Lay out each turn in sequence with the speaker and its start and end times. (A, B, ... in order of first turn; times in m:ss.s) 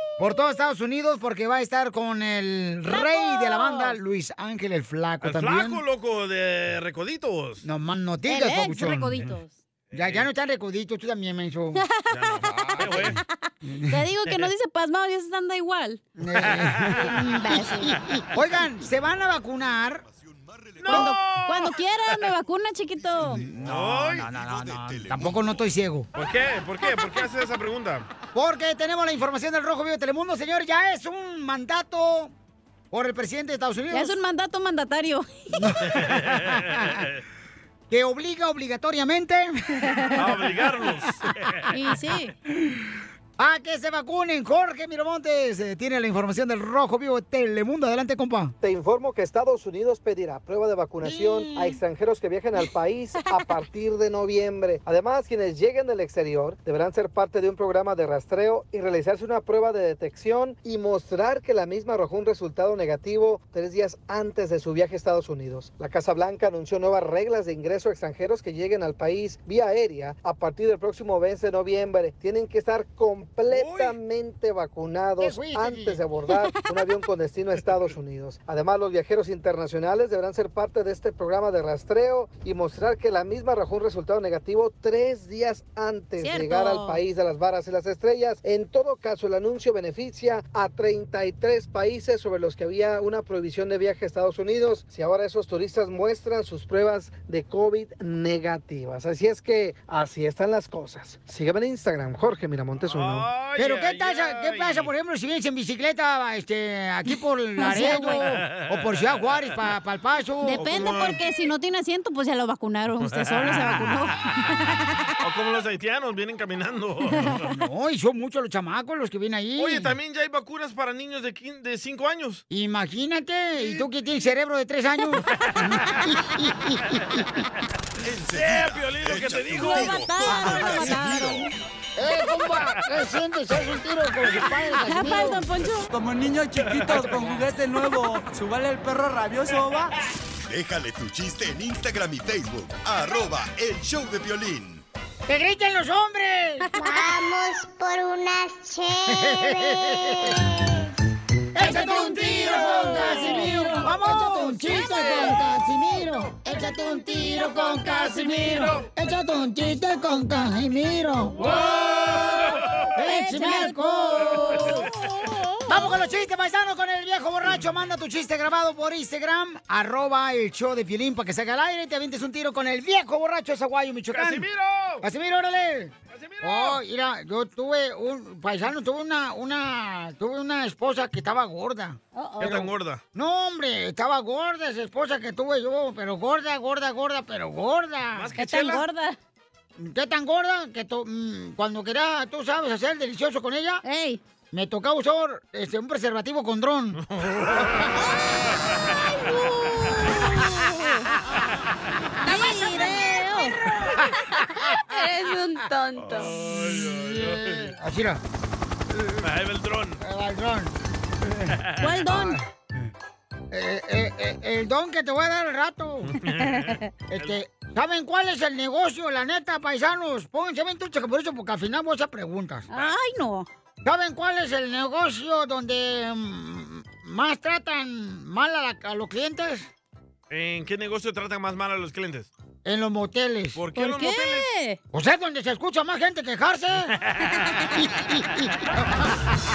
0:00.2-0:05.8 A
0:02.9-0:04.0 B
0:05.2-0:07.6 C
0:07.6-0:09.3 A
0:08.2-0:09.6 B
0:09.9-0:10.3 C
0:09.9-0:11.8 A
0:11.8-0:16.0 B
0:12.1-0:13.2 C
0:12.4-0:14.0 A
0:16.2-0:20.0 A
0:16.4-0:17.2 C
0:17.1-0:18.0 B
0:20.0-0:21.0 D
0:20.8-0:23.5 B
0:20.8-0:22.2 C
0:20.9-0:21.1 A
0:22.9-0:25.6 D
0:23.6-0:24.3 C
0:24.5-0:25.0 E
0:25.0-0:26.1 A
0:26.1-0:28.1 C
0:28.3-0:32.3 A
0:32.9-0:34.2 A
0:33.9-0:35.6 B
0:35.5-0:36.8 A
0:36.0-0:37.2 C
0:37.9-0:40.2 A
0:40.2-0:41.7 C
0:41.7-0:42.3 B
0:43.4-0:48.5 A
0:48.6-1:43.3 F
0:51.0-0:51.8 A
1:13.5-1:13.9 A
1:15.2-1:16.0 A
1:16.4-1:16.7 B
1:26.2-1:27.0 B
1:42.8-1:44.9 C
1:43.6-1:50.8 A
1:47.6-1:48.2 B
1:48.2-1:49.2 C
1:50.4-1:55.1 B
1:50.6-1:51.3 C
1:53.0-1:54.0 C
1:55.2-1:57.5 C
1:57.4-1:59.9 A
1:59.6-2:02.4 C
2:02.5-2:07.2 A
2:08.0-2:11.5 D
2:08.3-2:10.1 C
2:09.6-2:11.5 B
2:10.2-2:11.0 A
2:12.0-2:15.4 A
2:14.7-2:15.9 B
2:15.9-2:19.9 E
2:20.5-2:24.8 D
2:25.3-2:26.7 A
2:26.7-2:27.1 B
2:26.8-2:30.9 G
2:29.1-2:30.4 A
2:31.5-2:44.9 A
2:31.6-2:35.3 B
2:37.3-2:38.4 B
2:37.9-2:38.8 C
2:41.4-2:42.3 B
2:42.0-2:42.8 C
2:43.0-2:46.0 B
2:45.6-2:54.4 A
2:54.1-2:55.0 C
2:55.0-3:08.3 A
2:56.1-2:56.8 C
3:02.1-3:02.6 B
3:02.4-3:03.0 C
3:08.1-3:08.8 C
3:08.4-3:09.2 B
3:09.8-3:13.8 A
3:13.8-3:14.2 B
3:14.5-3:17.0 A
3:17.0-3:17.9 C
3:18.0-3:18.4 B
3:19.2-3:21.1 B
3:22.2-3:23.7 B
3:22.2-3:25.2 A
3:24.3-3:26.3 B
3:26.0-3:27.7 C
3:26.7-3:28.2 A
3:28.9-3:29.2 A
3:29.2-3:30.0 C
3:30.0-3:30.8 A
3:31.8-3:32.4 B
3:32.1-3:32.4 A
3:33.5-3:36.1 A
3:36.0-3:37.4 C
3:36.4-3:36.8 B
3:37.1-3:42.7 A
3:42.7-3:43.5 B
3:43.8-3:49.7 A
3:50.3-3:52.3 C
3:52.6-3:53.6 A
3:53.5-3:54.5 C
3:53.8-3:54.8 B
3:54.9-3:56.9 A
3:57.0-3:57.3 C
3:57.8-3:59.2 A